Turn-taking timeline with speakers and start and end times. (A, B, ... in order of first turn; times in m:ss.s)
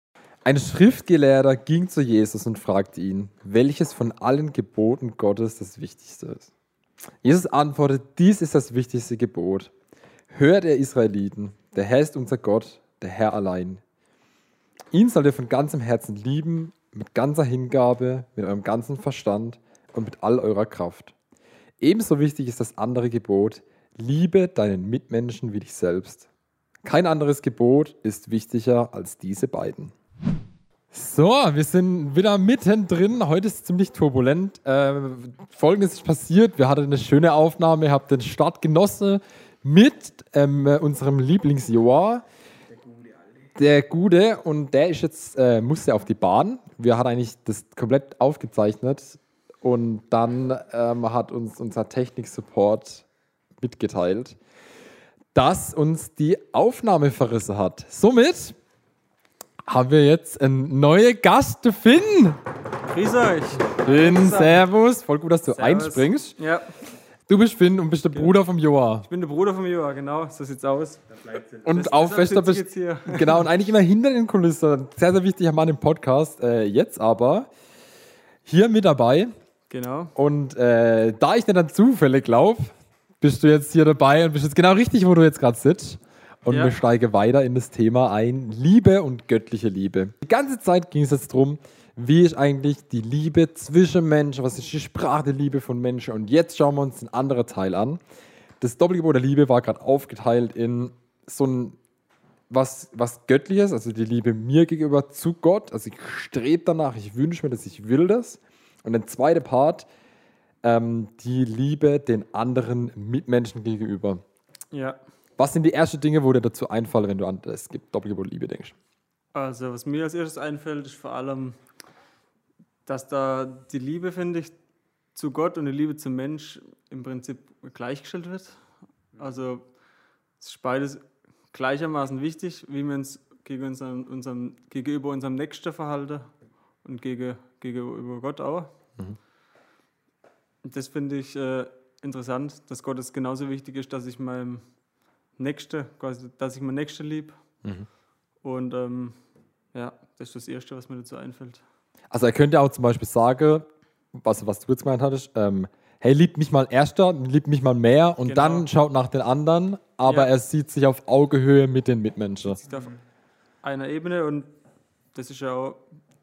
0:00.4-0:06.5 A
0:07.2-0:09.7 A
0:10.3-0:13.8 A
0:14.9-0:21.1 A
0:21.8-0:26.3 A
0:26.8-0:29.9 A
0:30.9-0:42.2 A
0:43.6-0:53.0 A
0:53.6-0:54.4 A
0:55.3-0:58.6 A
0:59.7-1:02.4 A
1:02.9-1:04.6 B
1:03.8-1:06.4 A
1:05.5-1:06.7 B
1:07.3-1:09.1 A
1:09.0-1:13.4 B
1:11.6-1:17.5 A
1:18.4-1:19.3 A
1:19.7-1:20.1 B
1:20.2-1:38.0 A
1:38.6-1:41.8 A
1:42.5-1:49.9 A
1:50.6-1:54.2 A
1:54.7-1:55.0 B
1:55.4-1:58.8 A
1:59.3-2:01.6 B
2:02.8-2:04.6 B
2:05.1-2:09.7 B
2:10.4-2:18.7 B
2:20.6-2:27.4 B
2:28.4-2:29.2 B
2:29.7-2:31.6 B
2:32.1-2:42.6 A
2:38.2-2:38.7 B
2:40.0-2:40.3 B
2:42.5-2:43.0 B
2:43.6-2:44.5 B
2:45.1-2:45.9 B